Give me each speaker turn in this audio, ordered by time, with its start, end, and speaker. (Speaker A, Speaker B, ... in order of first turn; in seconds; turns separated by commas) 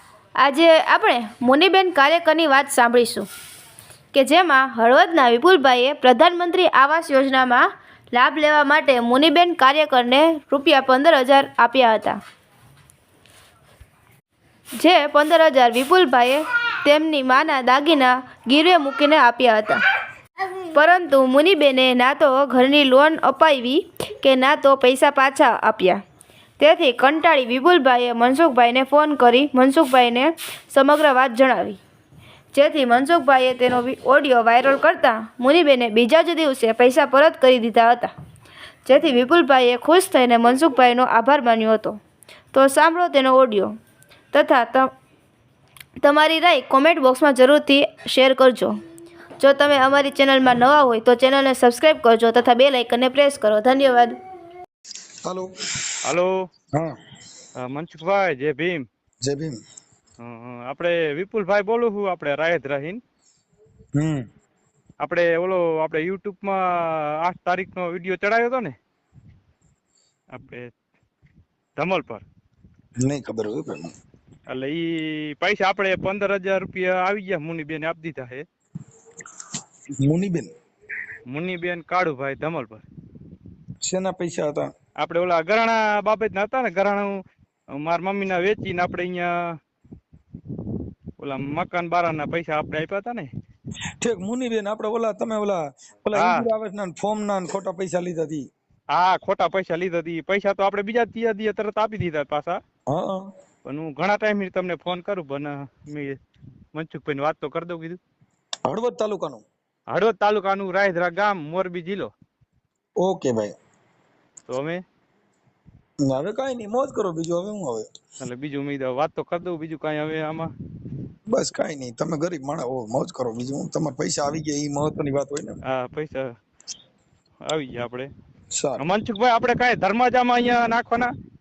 Speaker A: 0.4-3.3, Speaker A: 4.1-12.2, Speaker A: 14.8-19.8, Speaker A: 20.7-26.0, Speaker A: 26.6-31.8, Speaker A: 32.5-38.1, Speaker A: 38.9-42.0, Speaker A: 42.5-43.7, Speaker A: 44.3-44.9, Speaker A: 46.0-48.8, Speaker A: 49.4-54.1, Speaker B: 55.2-55.5, Speaker C: 56.0-56.4, Speaker C: 57.6-58.9, Speaker B: 59.2-59.6, Speaker C: 60.2-63.0, Speaker B: 64.0-64.2, Speaker C: 65.0-68.8, Speaker C: 70.3-70.7, Speaker C: 71.8-72.2, Speaker B: 73.0-73.9, Speaker C: 74.5-78.5, Speaker B: 80.0-80.5, Speaker C: 81.3-82.8, Speaker B: 83.8-84.7, Speaker C: 85.0-87.2, Speaker C: 87.8-89.3, Speaker C: 91.2-93.3, Speaker B: 94.0-98.5, Speaker C: 96.1-96.5, Speaker C: 98.9-102.6, Speaker B: 102.9-103.3, Speaker C: 103.7-106.2, Speaker C: 106.7-108.0, Speaker B: 108.7-109.4, Speaker C: 109.9-112.1, Speaker B: 113.0-113.5, Speaker C: 114.5-114.8, Speaker B: 116.0-117.9, Speaker C: 118.2-120.5, Speaker B: 121.3-125.6, Speaker C: 125.7-126.3, Speaker C: 127.5-128.1, Speaker B: 128.5-128.8, Speaker C: 128.8-131.1